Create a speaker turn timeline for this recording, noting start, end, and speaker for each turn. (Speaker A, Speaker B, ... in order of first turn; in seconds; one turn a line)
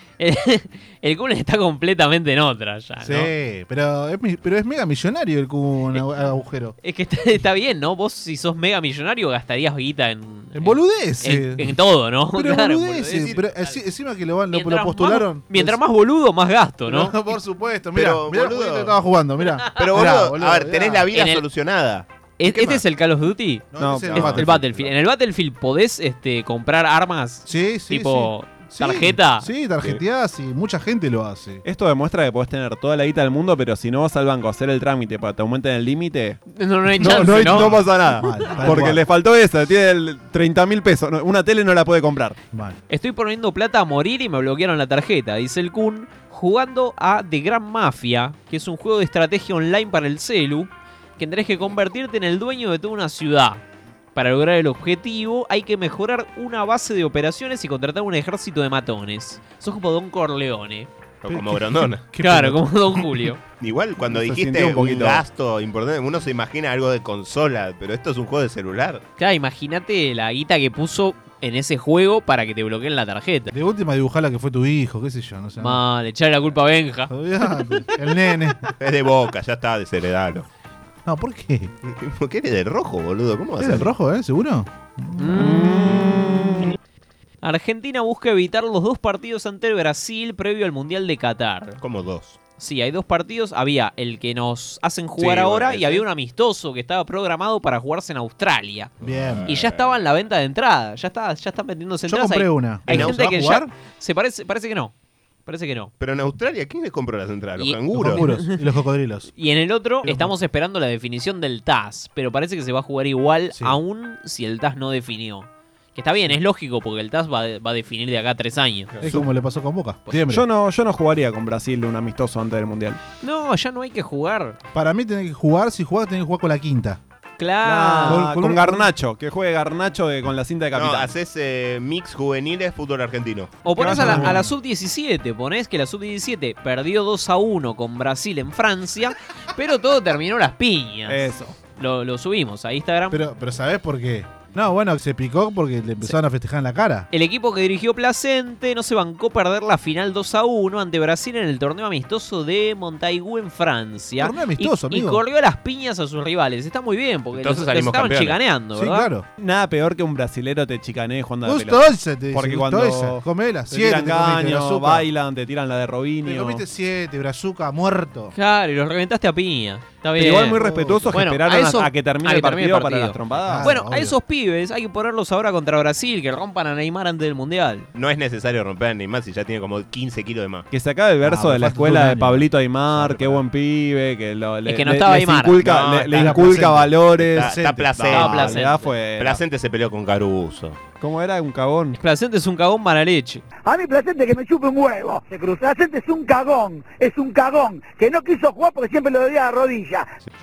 Speaker A: 0.2-3.3
Speaker B: 3.0-6.8
Speaker A: 6.8-13.8
Speaker B: 10.5-11.8
Speaker B: 12.3-15.8
Speaker A: 14.5-17.2
Speaker B: 16.9-21.1
Speaker C: 17.9-19.0
Speaker C: 19.7-22.8
Speaker A: 21.1-21.4
Speaker A: 22.4-29.5
Speaker B: 23.7-24.7
Speaker D: 23.8-24.6
Speaker B: 27.4-31.6
Speaker D: 31.6-36.4
Speaker A: 36.5-37.7
Speaker D: 37.0-42.4
Speaker B: 37.0-39.0
Speaker B: 42.5-42.8
Speaker A: 42.9-53.6
Speaker A: 54.1-60.9
Speaker C: 61.2-62.0
Speaker B: 61.3-62.6
Speaker A: 62.2-63.4
Speaker C: 63.6-69.0
Speaker D: 64.1-65.2
Speaker A: 69.2-73.5
Speaker B: 73.5-75.8
Speaker A: 75.6-77.1
Speaker B: 77.1-78.7
Speaker C: 78.8-80.5
Speaker B: 81.0-81.7
Speaker C: 81.8-83.9
Speaker B: 83.6-86.1
Speaker A: 85.2-85.8
Speaker D: 85.3-86.7
Speaker A: 87.4-91.8
Speaker C: 91.8-92.4
Speaker A: 92.6-98.9
Speaker D: 95.2-95.7
Speaker C: 95.2-96.0
Speaker C: 99.0-100.0
Speaker B: 99.0-99.5
Speaker A: 99.4-104.9
Speaker B: 102.1-103.7
Speaker C: 102.8-103.2
Speaker A: 105.5-105.9
Speaker C: 106.0-108.3
Speaker A: 107.6-108.6
Speaker B: 107.9-109.3
Speaker A: 109.3-119.0
Speaker B: 110.0-110.3
Speaker B: 119.0-120.5
Speaker D: 120.3-123.0
Speaker A: 123.2-124.6
Speaker B: 124.7-127.0
Speaker A: 127.4-128.2
Speaker D: 127.6-131.1
Speaker B: 128.0-128.9
Speaker C: 130.7-133.6
Speaker A: 133.6-143.2
Speaker B: 133.8-134.5
Speaker D: 133.9-134.4
Speaker D: 141.1-141.6
Speaker B: 143.1-147.1
Speaker A: 147.1-159.1
Speaker B: 154.2-155.2
Speaker C: 157.3-158.4
Speaker B: 158.7-159.2
Speaker D: 159.4-166.6
Speaker B: 161.4-165.1
Speaker B: 166.2-168.3
Speaker A: 168.3-170.6
Speaker D: 170.2-173.7
Speaker B: 170.4-171.2
Speaker A: 171.1-177.9
Speaker B: 173.3-174.2
Speaker C: 177.9-180.7
Speaker D: 180.7-189.4
Speaker B: 181.2-183.4
Speaker A: 184.7-185.6
Speaker C: 185.6-188.6
Speaker B: 186.1-187.9
Speaker A: 188.1-188.9
Speaker C: 189.2-190.8
Speaker D: 191.0-192.0
Speaker A: 191.9-193.4
Speaker E: 193.7-200.0